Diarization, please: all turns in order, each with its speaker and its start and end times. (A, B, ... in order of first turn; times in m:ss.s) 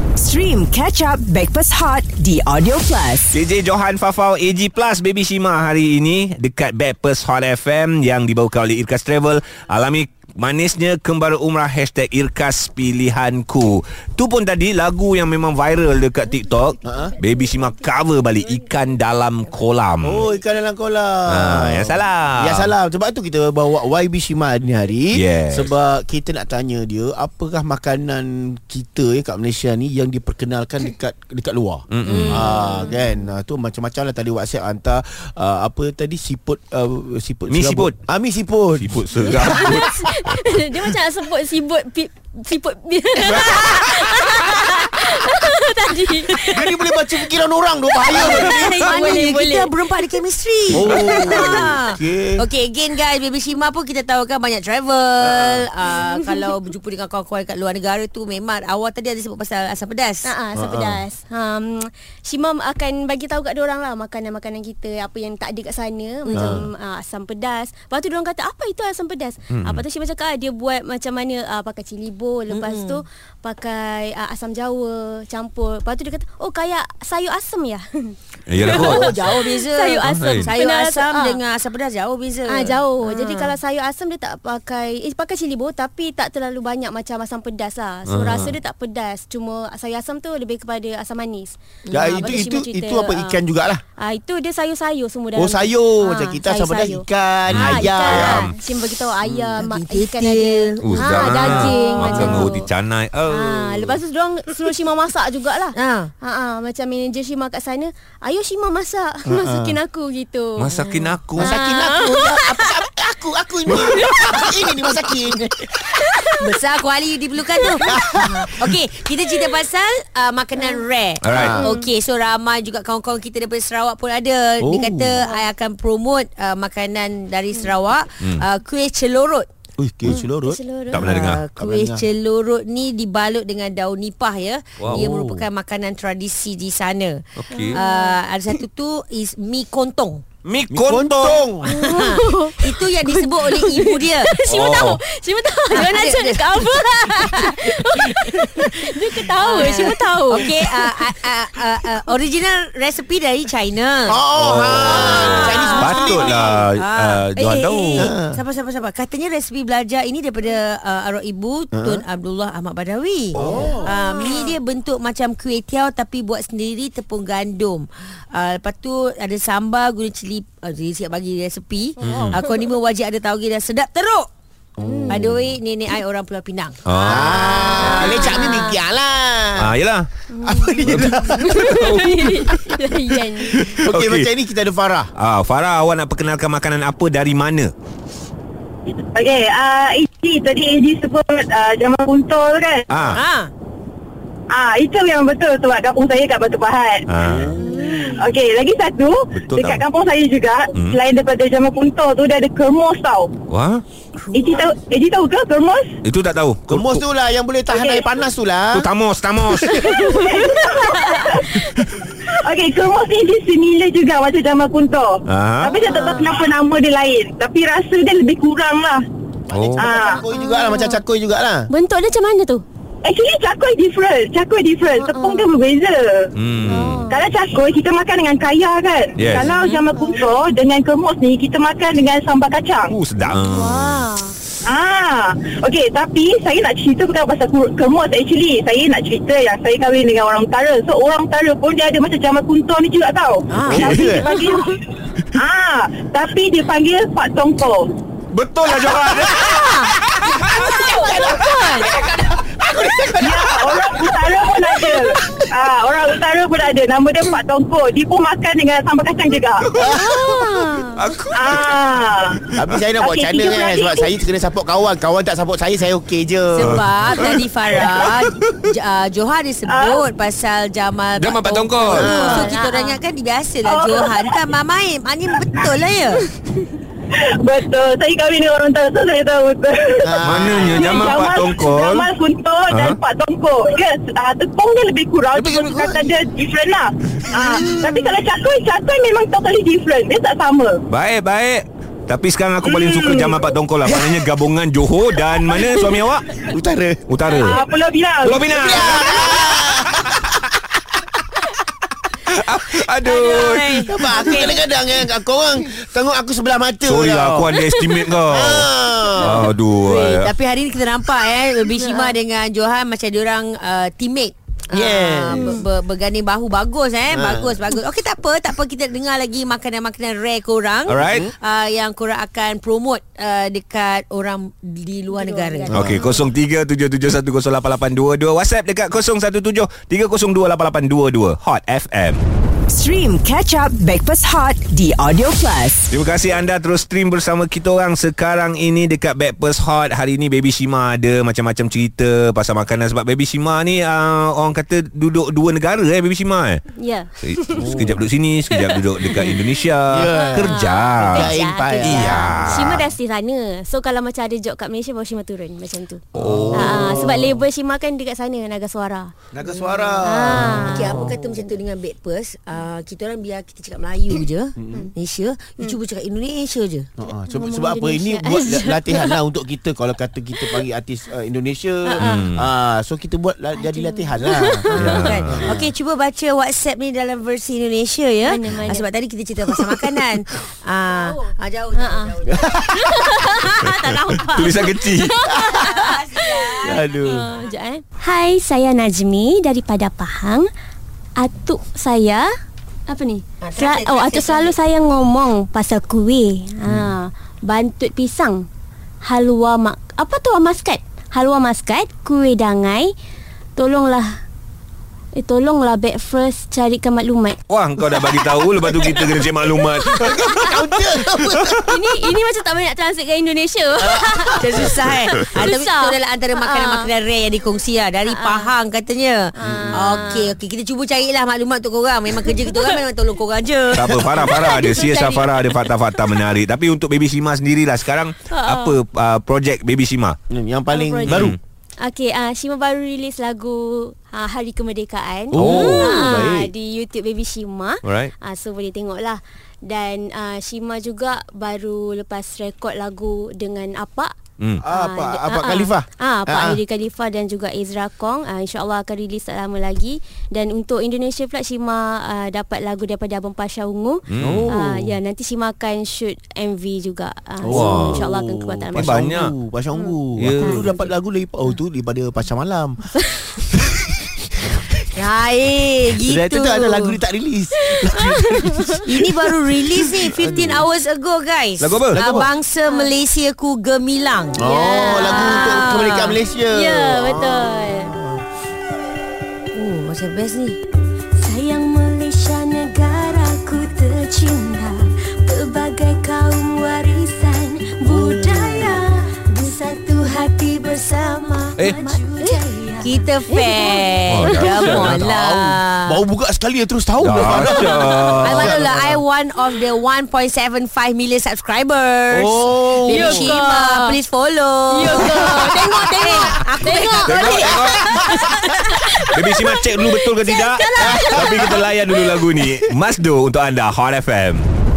0:00.2-0:03.3 A
0:03.3-0:20.2 B
0:16.8-0:17.7 C
0:16.8-0:17.1 D
0:20.0-0:39.8 D
0:21.3-0:22.7 B
0:25.1-0:25.7 B
0:31.9-0:32.4 B
0:32.0-0:32.6 C
0:37.5-0:38.0 B
0:38.8-0:40.1 B
0:39.2-0:46.7 E
0:46.4-0:48.7 D
0:48.0-0:49.7 E
0:48.1-1:00.3 C
0:50.7-0:52.4 D
0:50.9-0:51.6 E
0:55.2-0:55.6 D
1:00.2-1:21.4 E
1:00.5-1:01.0 D
1:06.3-1:06.7 C
1:06.3-1:06.7 D
1:09.5-1:09.8 B
1:12.5-1:13.0 C
1:18.5-1:19.2 B
1:18.6-1:23.6 C
1:20.0-1:20.5 B
1:22.5-1:33.4 E
1:28.0-1:28.5 B
1:31.9-1:32.3 C
1:31.9-1:33.8 D
1:34.0-1:42.7 E
1:35.4-1:38.5 D
1:37.5-1:38.5 B
1:39.2-1:39.6 D
1:39.6-1:42.5 C
1:40.8-1:43.9 B
1:43.3-1:50.8 E
1:45.7-1:46.1 C
1:49.3-1:49.8 D
1:50.6-1:51.6 B
1:51.4-1:55.9 D
1:51.4-1:52.8 E
1:53.7-1:54.5 E
1:55.8-1:56.4 E
1:56.4-2:09.5 C
1:57.6-1:58.0 E
1:57.9-1:58.3 D
2:01.2-2:01.6 B
2:01.3-2:01.7 D
2:01.5-2:01.8 E
2:04.6-2:05.1 D
2:09.8-2:10.6 D
2:10.0-2:11.1 E
2:10.9-2:11.4 B
2:10.9-2:20.2 C
2:11.6-2:12.0 D
2:14.8-2:15.4 B
2:17.4-2:17.8 B
2:17.5-2:18.2 E
2:20.4-2:21.4 B
2:20.7-2:21.7 D
2:21.6-2:31.1 E
2:21.6-2:24.3 C
2:24.4-2:25.0 B
2:25.7-2:34.2 C
2:34.0-2:36.6 D
2:34.3-2:38.1 B
2:34.7-2:54.3 C
2:35.6-2:36.0 E
2:37.9-2:38.4 D
2:41.7-2:42.0 D
2:43.3-2:43.9 D
2:43.6-2:44.6 E
2:52.0-2:52.4 B
2:52.0-2:52.7 E
2:54.8-2:55.4 D
2:54.8-2:55.3 E
2:55.1-2:58.7 C
2:56.8-2:57.6 B
2:57.0-2:59.7 D
2:57.1-2:58.8 E
2:59.6-3:00.1 B
3:00.3-3:03.6 E
3:00.4-3:01.9 D
3:00.8-3:02.6 B
3:03.4-3:04.3 B
3:03.6-3:05.1 D
3:05.2-3:07.7 B
3:09.1-3:12.9 F
3:12.9-3:13.2 B
3:13.1-3:13.5 C
3:14.5-3:17.1 F
3:17.1-3:17.6 B
3:17.6-3:18.2 C
3:18.1-3:23.3 F
3:19.3-3:19.8 B
3:20.7-3:21.0 B
3:23.5-3:23.8 B
3:24.2-3:24.6 C
3:24.3-3:25.9 F
3:26.0-3:27.0 B
3:26.7-3:28.8 D
3:28.7-3:29.8 B
3:29.6-3:29.8 D
3:29.6-3:31.6 E
3:29.8-3:31.6 F
3:32.2-3:39.0 F
3:35.2-3:35.8 B
3:35.8-3:36.4 E
3:39.5-3:41.7 D
3:39.5-3:39.8 B
3:39.8-3:40.2 F
3:40.3-3:41.0 E
3:41.7-3:42.6 E
3:43.0-3:46.3 F
3:44.9-3:45.5 E
3:46.3-3:47.0 B
3:46.6-3:47.2 E
3:47.1-3:53.0 F
3:49.2-3:49.5 B
3:49.4-3:50.4 E
3:52.9-3:54.0 B
3:53.4-3:54.4 E
3:54.6-4:04.7 F
4:03.5-4:03.9 C
4:03.6-4:04.3 D
4:03.7-4:04.1 B
4:04.2-4:04.7 E
4:05.3-4:07.9 F
4:08.3-4:10.8 B
4:09.2-4:09.6 D
4:10.5-4:14.0 D
4:10.8-4:11.9 E
4:12.6-4:13.0 B
4:13.2-4:19.7 F
4:14.7-4:15.4 D
4:19.7-4:21.8 B
4:19.8-4:21.1 E
4:19.8-4:20.2 D
4:21.3-4:22.4 F
4:22.4-4:22.8 B
4:22.6-4:26.8 D
4:23.0-4:24.1 F
4:26.5-4:36.3 C
4:26.6-4:27.4 B
4:27.9-4:28.6 B
4:29.7-4:30.0 F
4:31.2-4:32.3 B
4:31.8-4:33.0 E
4:33.6-4:34.4 F
4:35.4-4:35.7 F
4:37.1-4:50.8 F
4:40.0-4:41.1 D
4:40.2-4:42.1 B
4:42.7-4:43.0 B
4:45.4-4:46.0 D
4:47.4-4:48.0 D
4:50.9-4:56.4 B
4:52.6-4:53.5 F
4:53.8-4:54.2 D
4:56.4-4:57.0 D
4:57.1-4:57.6 B
4:57.3-4:59.3 F
4:58.2-4:59.4 B
4:58.5-5:00.2 D
5:02.3-5:04.0 B
5:03.0-5:04.7 C
5:03.9-5:07.6 D
5:04.0-5:04.4 E
5:06.8-5:10.3 B
5:08.2-5:09.5 D
5:09.8-5:25.7 C
5:14.7-5:15.5 D
5:15.3-5:15.6 E
5:17.1-5:17.5 D
5:20.9-5:21.3 B
5:25.1-5:26.2 E
5:25.7-5:26.0 D
5:25.7-5:32.2 B
5:32.7-5:35.9 A
5:35.9-5:46.6 B
5:46.8-5:48.0 E
5:47.2-5:52.9 B
5:47.6-5:48.0 D
5:48.5-5:49.4 E
5:49.9-5:52.8 D
5:50.1-5:59.1 E
5:56.1-5:57.2 B
5:56.2-5:57.3 D
5:59.4-6:01.3 D
6:00.0-6:01.1 E
6:00.5-6:06.9 C
6:04.6-6:04.9 D
6:07.0-6:14.7 D
6:07.1-6:09.2 E
6:11.8-6:12.2 E
6:12.0-6:12.5 B
6:13.6-6:15.2 E
6:14.7-6:15.5 B
6:14.8-6:22.5 C
6:15.3-6:15.7 D
6:18.2-6:18.9 E
6:20.9-6:22.1 E
6:22.3-6:22.8 D
6:22.7-6:23.3 E
6:23.2-6:24.7 C
6:24.2-6:25.2 B
6:24.6-6:30.5 E
6:25.3-6:27.4 C
6:26.6-6:27.3 D
6:31.2-6:32.3 E
6:32.9-6:38.4 E
6:33.4-6:34.6 C
6:39.0-6:42.9 E
6:43.6-6:44.1 E
6:45.2-6:50.3 E
6:47.5-6:50.5 B
6:50.0-6:51.6 D
6:51.2-6:51.6 B
6:51.7-6:56.9 E
6:53.8-6:54.3 D
6:54.3-7:04.0 C
6:54.6-6:55.3 B
6:58.0-6:58.5 E
6:59.3-7:00.3 E
6:59.4-7:00.0 D
7:02.2-7:02.7 E
7:03.7-7:10.2 B
7:03.8-7:04.3 D
7:04.1-7:05.7 E
7:08.3-7:08.8 E
7:10.3-7:11.4 D
7:10.7-7:24.1 E
7:11.1-7:11.4 B
7:15.3-7:16.5 D
7:15.4-7:16.0 B
7:15.5-7:16.0 C
7:17.8-7:18.1 B
7:24.6-7:26.6 D
7:24.7-7:39.2 E
7:34.1-7:34.6 B
7:34.2-7:34.8 D
7:37.4-7:42.9 D
7:37.5-7:38.0 B
7:38.7-7:39.3 B
7:39.8-7:40.6 E
7:40.2-7:40.6 B
7:43.5-7:43.9 D
7:44.9-7:47.0 C
7:46.0-7:49.1 D
7:47.6-7:49.1 E
7:48.8-7:54.4 C
7:50.2-7:50.6 D
7:51.6-7:52.0 B
7:51.9-7:52.3 D
7:54.4-7:55.7 E
7:54.4-7:58.2 D
7:55.0-7:56.2 C
7:56.5-7:57.9 E
7:59.5-8:00.6 C
8:01.2-8:14.8 E
8:07.9-8:08.8 D
8:10.0-8:11.4 C
8:11.6-8:11.9 B
8:12.8-8:16.0 C
8:14.1-8:15.1 B
8:14.8-8:19.0 D
8:17.0-8:18.6 B
8:17.5-8:17.9 E
8:18.2-8:27.4 C
8:22.1-8:23.4 D
8:22.8-8:24.0 E
8:24.7-8:32.2 E
8:24.9-8:26.2 D
8:27.0-8:28.4 B
8:27.6-8:28.2 D
8:29.1-8:34.5 B
8:30.8-8:31.6 D